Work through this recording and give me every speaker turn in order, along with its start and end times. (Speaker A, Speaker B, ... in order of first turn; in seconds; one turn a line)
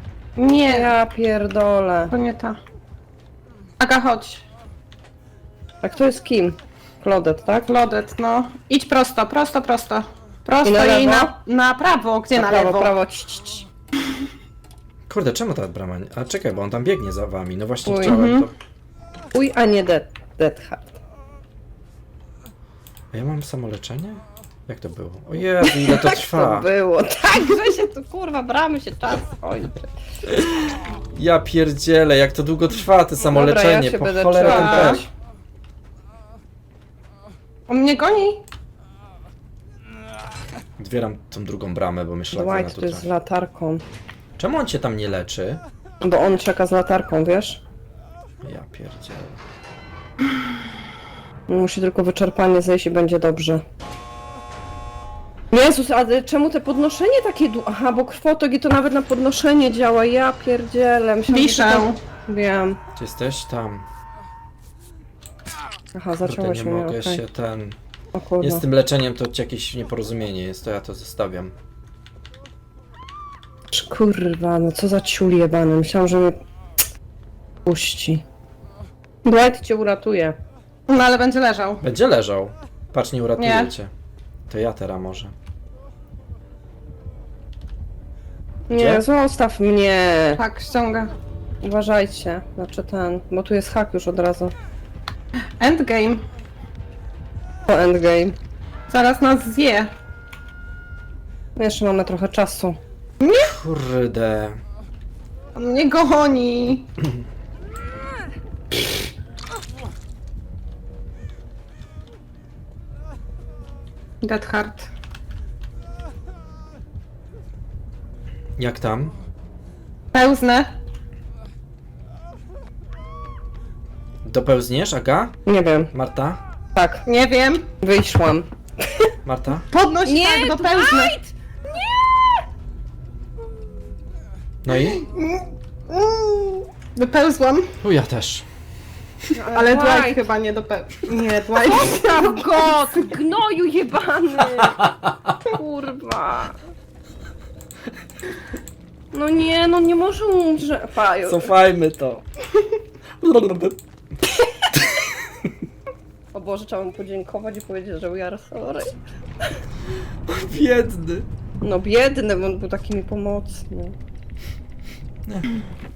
Speaker A: 0.4-0.9
Speaker B: 0.7-2.1
Speaker A: 2.1-2.6
Speaker A: 3.8-4.4
Speaker B: 5.8-7.7
Speaker A: 7.5-12.9
Speaker B: 10.6-11.3
Speaker B: 12.4-13.7
Speaker C: 15.1-18.5
Speaker B: 17.9-18.2
Speaker A: 18.0-18.5
Speaker B: 19.3-21.0
Speaker C: 23.1-26.7
Speaker B: 25.4-29.9
Speaker C: 30.3-35.0
Speaker B: 33.3-35.1
Speaker A: 34.4-35.0
Speaker A: 37.7-38.4
Speaker C: 40.8-43.1
Speaker B: 42.3-43.8
Speaker C: 44.4-45.6
Speaker B: 46.0-47.6
Speaker C: 48.4-49.4
Speaker B: 51.5-53.6
Speaker B: 55.5-62.8
Speaker A: 61.3-62.0
Speaker C: 63.0-63.9
Speaker B: 66.0-67.2
Speaker C: 66.2-67.8
Speaker B: 68.2-68.6
Speaker C: 68.4-71.5
Speaker B: 73.7-76.4
Speaker B: 77.7-78.2
Speaker B: 79.2-80.4
Speaker A: 80.9-81.8
Speaker C: 81.8-83.9
Speaker A: 83.4-83.7
Speaker C: 84.5-85.3
Speaker B: 88.7-90.4
Speaker C: 88.7-89.0
Speaker A: 90.4-91.1
Speaker B: 91.6-94.5
Speaker A: 95.6-96.2
Speaker B: 97.7-98.4
Speaker A: 98.9-99.9
Speaker B: 101.6-102.8
Speaker A: 103.2-103.5
Speaker C: 103.5-104.6
Speaker A: 105.5-106.9
Speaker A: 114.2-114.9
Speaker C: 118.6-119.2
Speaker A: 120.1-120.7
Speaker C: 124.2-125.4
Speaker B: 125.5-125.9
Speaker C: 125.9-126.4
Speaker B: 126.8-127.0
Speaker A: 127.1-127.7
Speaker B: 127.8-129.1
Speaker C: 129.2-129.7
Speaker A: 129.7-131.1
Speaker B: 130.1-132.3
Speaker C: 134.7-135.0
Speaker A: 134.8-137.7
Speaker C: 137.8-138.5
Speaker B: 139.3-140.2
Speaker A: 139.4-142.6
Speaker B: 141.6-144.8
Speaker B: 145.5-146.6
Speaker B: 149.1-151.5
Speaker C: 151.2-152.2
Speaker C: 153.2-153.8
Speaker B: 156.3-158.9
Speaker C: 160.3-161.3
Speaker B: 161.6-164.0
Speaker C: 165.3-165.6